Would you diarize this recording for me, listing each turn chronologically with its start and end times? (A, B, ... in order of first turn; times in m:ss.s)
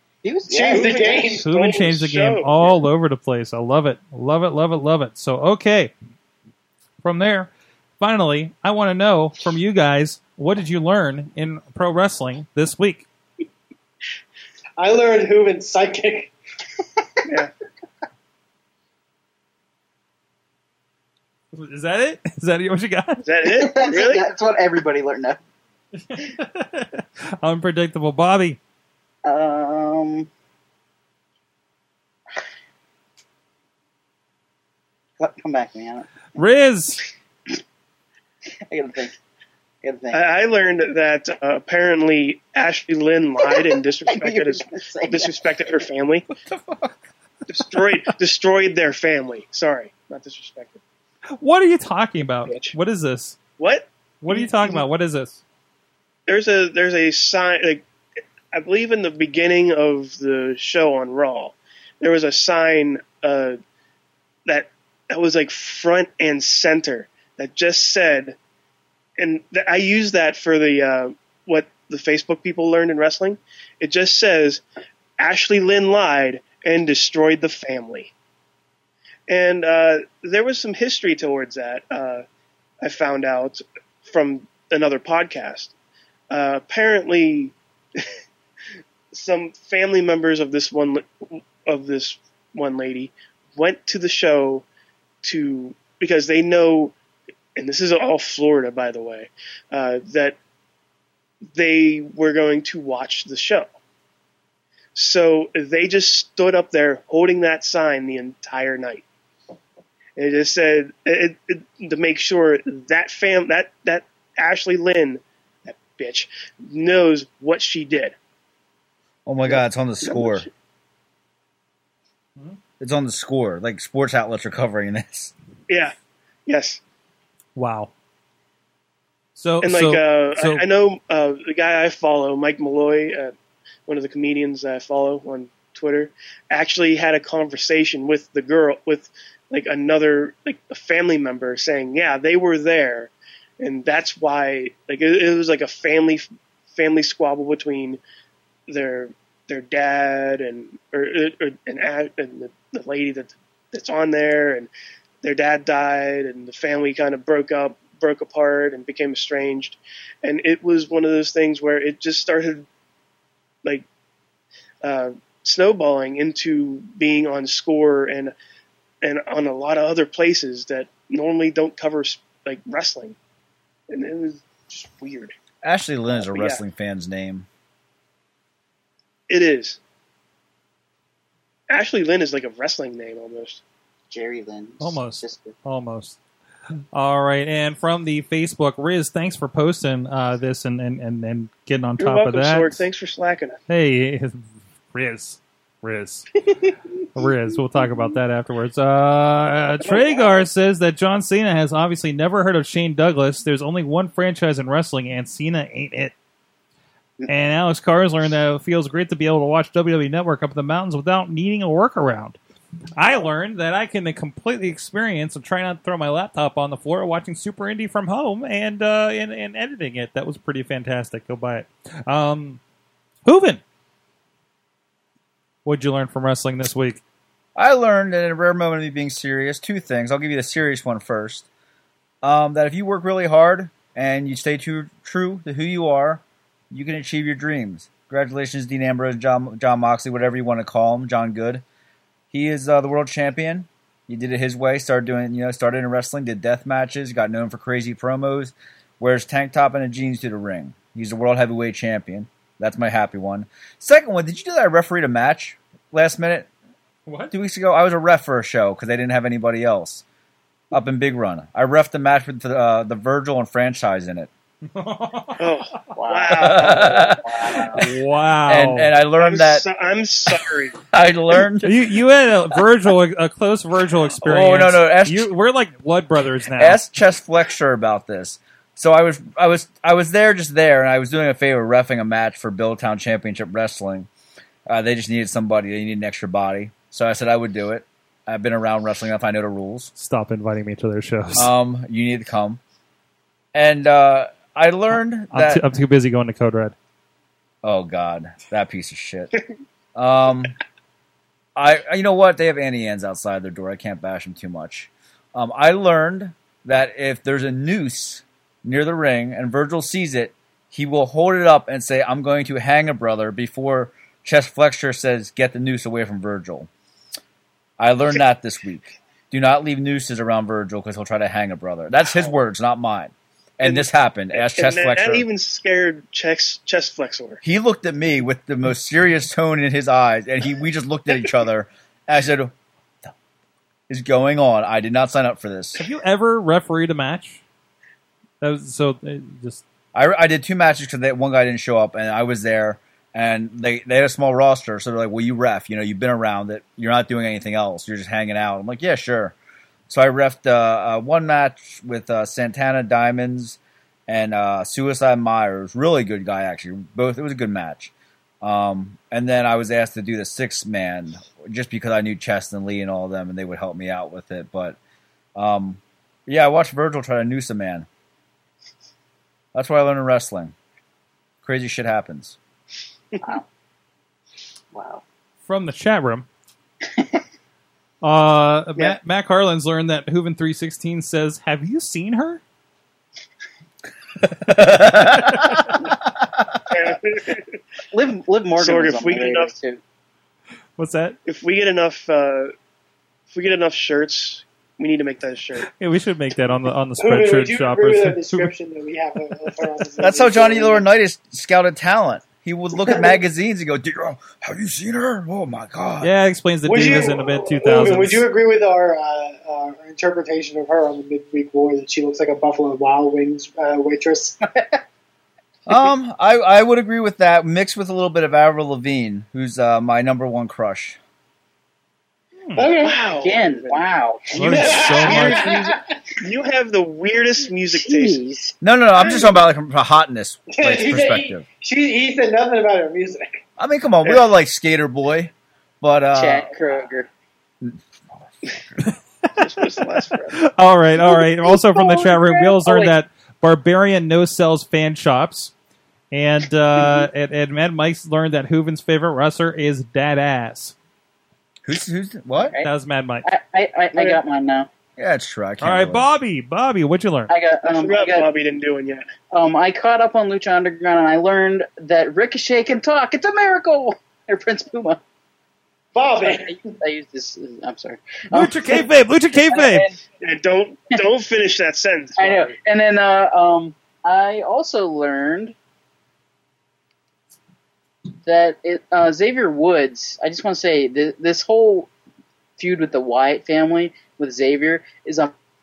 0:00.2-0:01.2 A
0:00.5-0:01.5 B
0:00.7-0:02.8 C
0:01.4-0:05.9 D
0:07.0-0:13.1 D
0:14.8-0:16.3 B
0:21.5-0:23.2 D
0:23.2-0:24.3 C
0:23.4-0:25.4 A
0:26.1-0:28.6 D
0:29.2-0:30.3 A
0:35.2-0:36.4 A
0:36.4-0:37.0 D
0:38.7-0:39.2 A
0:39.8-0:40.2 A
0:40.1-0:46.3 C
0:43.4-0:45.4 A
0:47.5-0:50.8 C
0:51.4-0:53.4 D
0:52.5-0:52.7 C
0:53.6-0:54.8 C
0:54.2-0:55.4 D
0:56.3-0:57.9 C
0:58.5-1:03.6 C
1:04.5-1:08.4 C
1:09.2-1:14.6 C
1:15.2-1:18.1 C
1:19.3-1:22.2 C
1:22.8-1:25.7 C
1:26.3-1:28.1 C
1:29.1-1:34.6 C
1:35.2-1:37.0 C
1:37.6-1:40.4 C
1:41.5-1:43.7 C
1:45.0-1:49.0 C
1:50.2-1:58.2 C
1:59.3-2:00.5 E
2:00.1-2:00.4 C
2:02.8-2:05.3 E
2:05.7-2:06.0 C
2:06.5-2:06.8 C
2:07.6-2:07.9 D
2:09.4-2:10.6 D
2:09.6-2:13.3 C
2:13.9-2:28.0 C
2:28.7-2:34.7 C
2:35.2-2:42.7 C
2:44.8-2:48.3 C
2:49.0-2:53.2 C
2:53.9-2:55.4 C
2:55.6-2:57.5 E
2:56.2-2:56.6 C
2:59.3-2:59.8 C
3:01.7-3:03.6 C
3:04.1-3:05.6 A
3:04.8-3:06.2 D
3:06.9-3:12.8 D
3:12.0-3:13.6 C
3:13.7-3:16.4 D
3:17.1-3:26.1 D
3:27.3-3:32.4 D
3:33.0-3:42.6 D
3:43.2-3:43.6 D
3:45.6-3:47.0 D
3:47.6-3:51.5 E
3:52.2-4:01.6 E
4:02.3-4:16.5 E
4:17.1-4:17.3 D
4:17.3-4:20.0 E
4:20.7-4:24.3 E
4:24.7-4:25.5 D
4:25.4-4:27.1 C
4:25.9-4:27.9 A
4:26.4-4:27.9 E
4:27.7-4:28.9 D
4:28.4-4:29.7 E
4:29.2-4:30.8 C
4:30.8-4:31.8 E
4:31.6-4:36.8 D
4:34.2-4:35.3 E
4:36.5-4:44.1 E
4:44.7-4:49.9 E
4:50.0-4:51.5 D
4:51.4-4:52.6 E
4:53.6-4:55.7 E
4:55.3-4:56.8 D
4:57.6-4:59.3 E
5:00.0-5:00.6 E
5:01.6-5:16.7 E
5:17.8-5:25.3 E
5:23.6-5:27.4 C
5:27.4-5:32.5 E
5:33.9-5:35.8 E
5:35.8-5:37.4 D
5:38.4-5:39.6 D
5:39.9-5:49.4 E
5:49.9-6:04.8 E
6:05.4-6:07.9 E
6:09.5-6:10.5 E
6:11.4-6:12.4 E
6:14.7-6:15.0 A
6:15.4-6:16.3 D
6:16.9-6:17.2 A
6:18.0-6:22.4 D
6:24.3-6:25.6 E
6:26.7-6:27.6 C
6:27.9-6:29.8 A
6:28.6-6:29.5 C
6:30.8-6:31.2 D
6:31.3-6:32.5 C
6:33.3-6:35.7 C
6:35.7-6:38.5 D
6:37.0-6:40.8 B
6:40.0-6:46.1 E
6:46.0-6:48.3 D
6:46.7-6:54.4 B
6:55.7-7:01.0 E
7:02.4-7:02.7 D
7:02.6-7:03.1 B
7:02.8-7:05.5 C
7:03.2-7:05.7 A
7:04.4-7:05.8 D
7:04.6-7:05.9 B
7:06.2-7:08.2 C
7:07.7-7:08.6 A
7:08.6-7:11.4 E
7:10.5-7:13.4 B
7:13.6-7:16.5 E
7:16.2-7:17.1 A
7:19.4-7:20.4 C
7:20.3-7:25.5 D
7:21.0-7:22.9 A
7:26.1-7:30.7 D
7:26.8-7:27.1 A
7:31.6-7:32.6 E
7:32.4-7:32.7 A
7:32.6-7:33.3 D
7:33.2-7:34.7 A
7:33.9-7:34.2 C
7:35.0-7:36.1 E
7:35.6-7:37.3 D
7:37.3-7:38.3 A
7:37.7-7:39.0 C
7:39.3-7:45.0 A
7:46.0-7:46.6 B
7:46.2-7:50.0 A
7:48.3-7:49.9 D
7:50.2-7:52.5 C
7:52.2-7:55.6 A
7:58.2-8:01.9 A
8:02.6-8:05.3 A